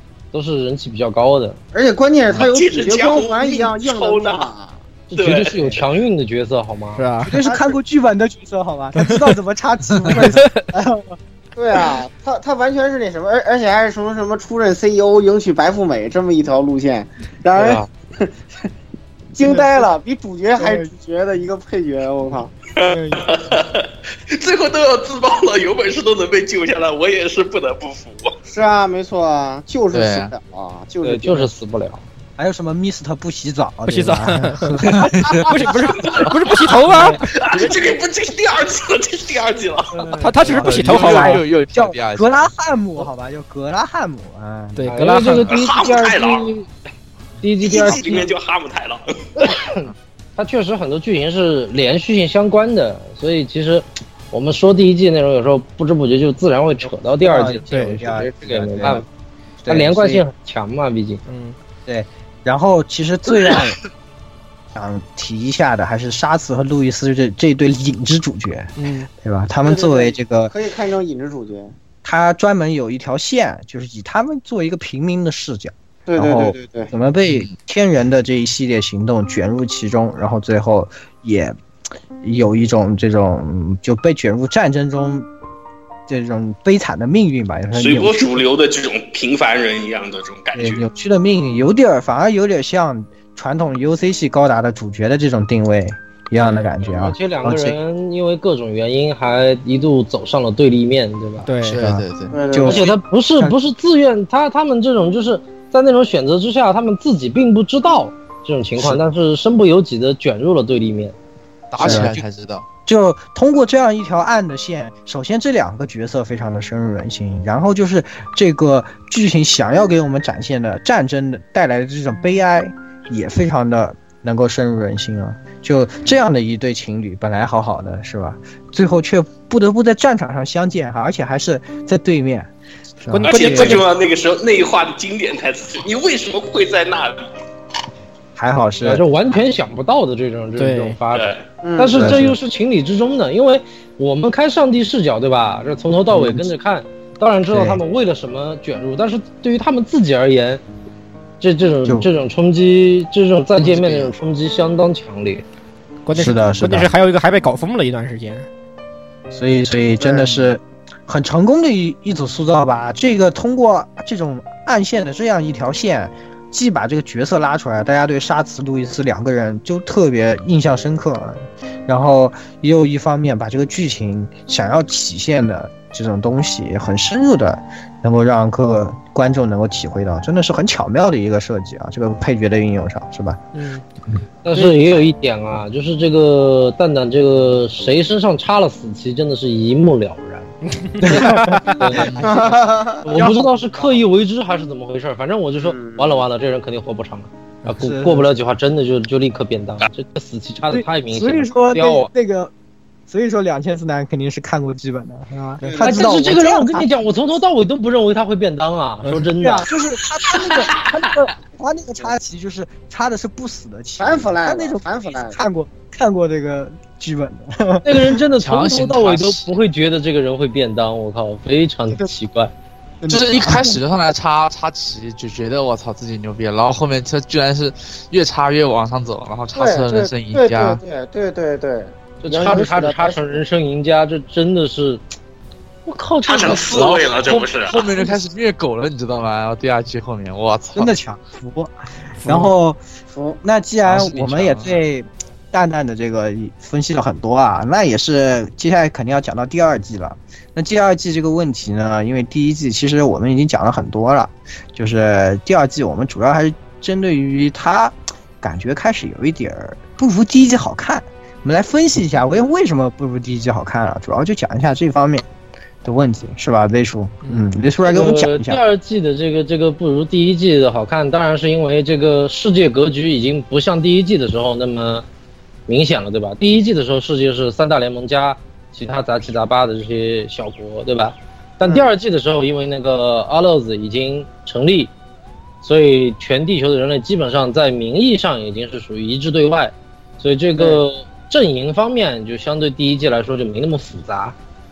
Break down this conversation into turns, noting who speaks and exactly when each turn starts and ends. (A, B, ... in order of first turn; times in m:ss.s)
0:00.3-0:01.6 A
0:01.7-0:04.8 B
0:02.3-0:04.5 C
0:05.1-0:07.0 A
0:05.1-0:05.8 C
0:07.0-0:07.4 D
0:07.2-0:11.2 E
0:07.4-0:07.8 B
0:11.6-0:18.3 B
0:17.5-0:17.9 A
0:19.3-0:22.6 B
0:20.6-0:20.9 E
0:22.7-0:28.3 C
0:28.5-0:31.5 B
0:29.9-0:30.3 F
0:31.0-0:32.0 A
0:32.4-0:36.2 E
0:33.9-0:37.9 D
0:34.8-0:35.5 F
0:36.0-0:40.1 C
0:39.9-0:44.9 E
0:40.1-0:41.4 D
0:40.4-0:42.5 F
0:44.8-0:45.5 D
0:44.9-0:46.7 A
0:45.4-0:46.5 C
0:47.4-0:48.3 A
0:47.6-0:49.5 C
0:49.4-0:49.8 A
0:50.4-0:59.0 A
0:57.2-0:59.0 E
0:59.6-1:00.2 E
0:59.7-1:01.2 A
1:01.3-1:01.6 D
1:01.8-1:03.8 E
1:04.7-1:10.5 E
1:08.8-1:09.1 D
1:09.6-1:11.7 B
1:12.0-1:21.6 E
1:16.1-1:16.9 B
1:17.2-1:17.5 F
1:22.2-1:25.3 E
1:26.1-1:28.4 E
1:27.7-1:30.8 C
1:30.5-1:37.8 E
1:36.8-1:41.5 A
1:41.4-1:41.8 D
1:41.6-1:42.3 F
1:41.8-1:43.6 E
1:42.3-1:42.9 B
1:42.6-1:51.1 A
1:51.7-1:52.6 F
1:51.8-1:52.1 B
1:51.8-1:52.2 E
1:52.9-2:12.5 E
2:13.0-2:13.8 E
2:13.1-2:13.9 D
2:13.2-2:17.3 C
2:18.4-2:19.0 E
2:18.8-2:30.6 A
2:20.6-2:21.0 D
2:21.1-2:21.4 C
2:21.6-2:22.3 B
2:21.9-2:22.4 E
2:26.1-2:26.5 E
2:27.5-2:27.8 E
2:31.4-2:35.4 A
2:33.6-2:34.1 F
2:36.0-2:38.5 D
2:36.1-2:36.9 E
2:39.3-3:03.4 E
2:40.0-2:40.2 B
2:40.2-2:40.5 F
3:03.5-3:03.8 D
3:04.4-3:12.3 A
3:10.7-3:12.1 D
3:11.0-3:12.1 E
3:11.9-3:12.5 F
3:12.2-3:13.2 B
3:13.0-3:22.1 A
3:13.1-3:14.0 E
3:15.6-3:16.2 B
3:17.6-3:18.3 E
3:20.7-3:22.5 E
3:23.1-3:26.9 E
3:25.6-3:26.1 B
3:25.8-3:29.7 A
3:29.4-3:38.2 E
3:34.0-3:35.4 B
3:37.8-3:42.5 A
3:38.4-3:39.5 F
3:43.0-3:43.8 E
3:43.1-3:50.8 F
3:49.6-3:53.4 B
3:52.2-3:55.0 A
3:55.8-3:57.1 A
3:56.2-3:57.8 C
3:57.0-4:00.9 F
4:00.7-4:02.8 E
4:02.2-4:02.5 D
4:03.1-4:03.4 B
4:03.4-4:25.2 E
4:03.8-4:04.8 F
4:25.8-4:28.6 E
4:27.8-4:35.0 A
4:35.7-4:44.9 A
4:41.6-4:41.9 B
4:45.6-4:54.4 A